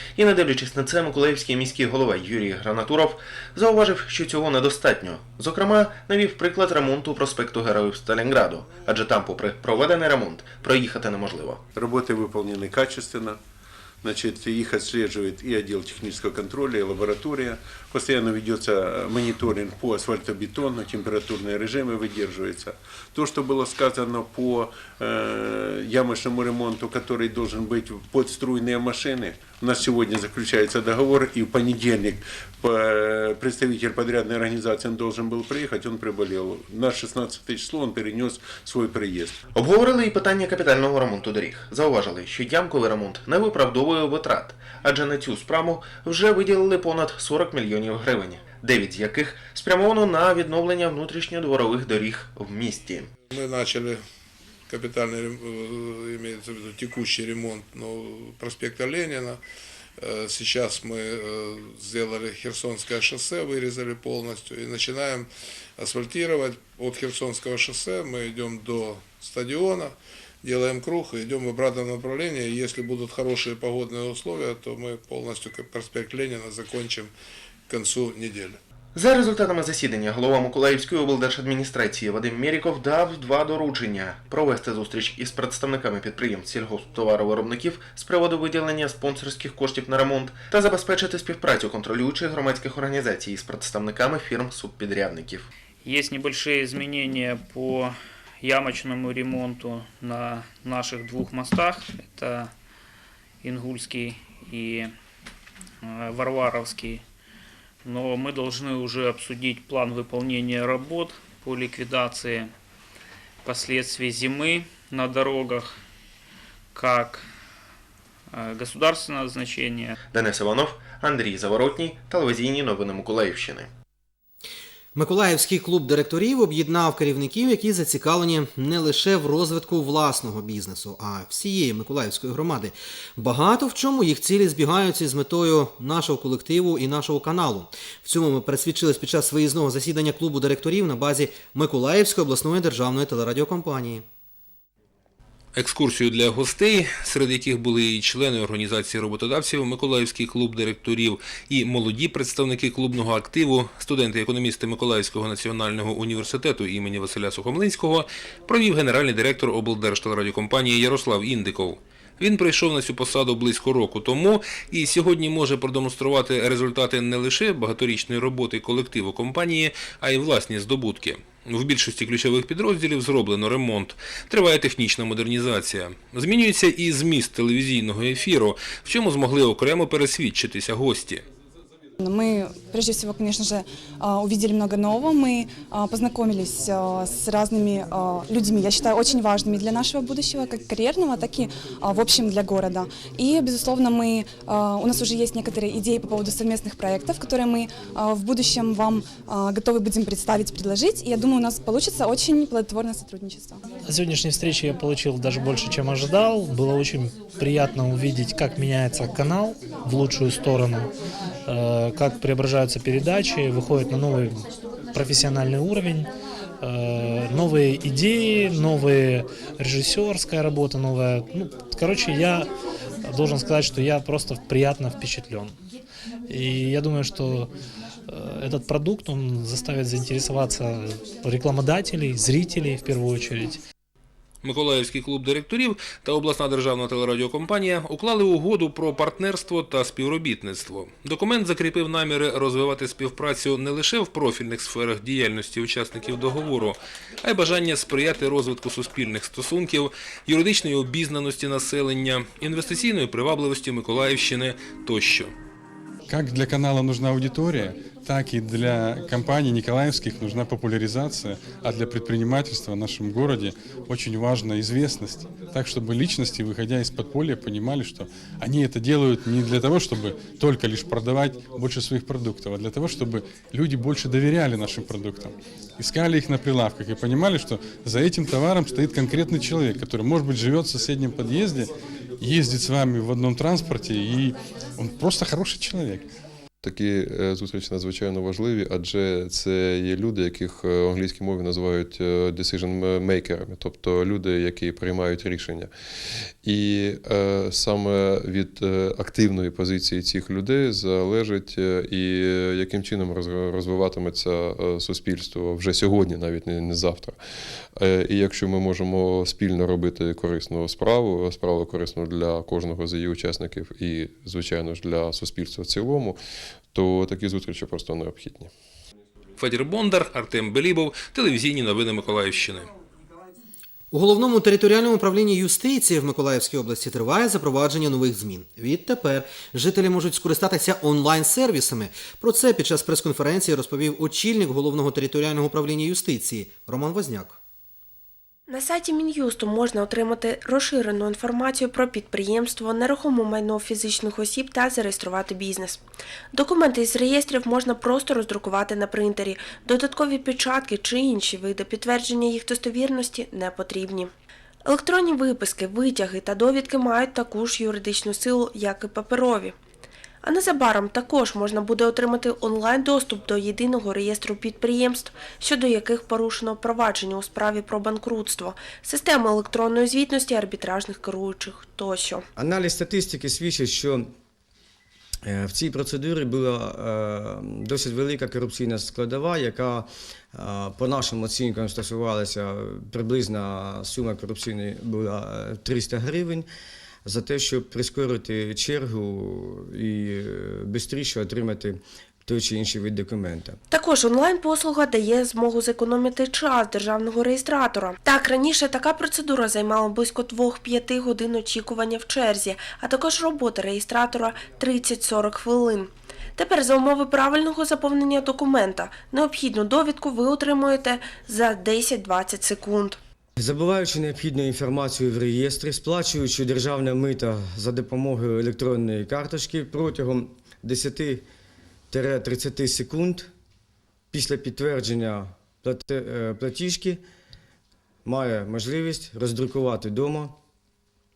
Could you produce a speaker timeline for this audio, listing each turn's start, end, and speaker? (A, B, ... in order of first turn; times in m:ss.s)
0:00.2-0:11.6 A
0:11.8-0:13.4 B
0:14.0-0:39.4 B
0:39.5-0:53.1 A
0:53.3-0:54.0 C
0:54.7-0:59.4 C
1:00.0-1:17.1 C
1:17.7-1:18.6 C
1:19.0-1:35.5 A
1:35.8-1:42.5 D
1:43.4-1:44.9 D
1:45.8-1:47.0 D
1:47.8-1:52.5 D
1:53.4-1:55.8 D
1:56.7-1:57.3 D
1:58.3-1:59.9 D
2:00.1-2:03.7 A
2:05.0-2:24.0 E
2:25.5-3:01.2 F
3:02.0-3:23.6 G
3:23.8-3:30.9 H
3:31.5-3:36.1 H
3:36.6-3:42.5 H
3:43.1-3:45.5 H
3:46.3-3:47.5 H
3:48.1-3:53.6 H
3:54.4-4:15.3 F
4:16.1-4:46.1 I
4:46.6-4:55.7 J
4:56.4-5:07.2 J
5:07.8-5:16.2 J
5:16.7-5:18.5 J
5:19.4-5:22.7 F
5:23.9-5:37.4 E
5:38.5-5:45.8 K
5:46.3-5:54.1 K
5:54.7-5:59.6 K
6:00.2-6:12.3 K
6:12.4-6:14.1 L
6:15.2-6:26.5 L
6:27.0-6:33.6 L
6:33.7-6:53.0 K
6:53.4-7:01.2 L
7:01.9-7:03.3 L
7:04.1-7:07.0 L
7:08.0-7:10.4 L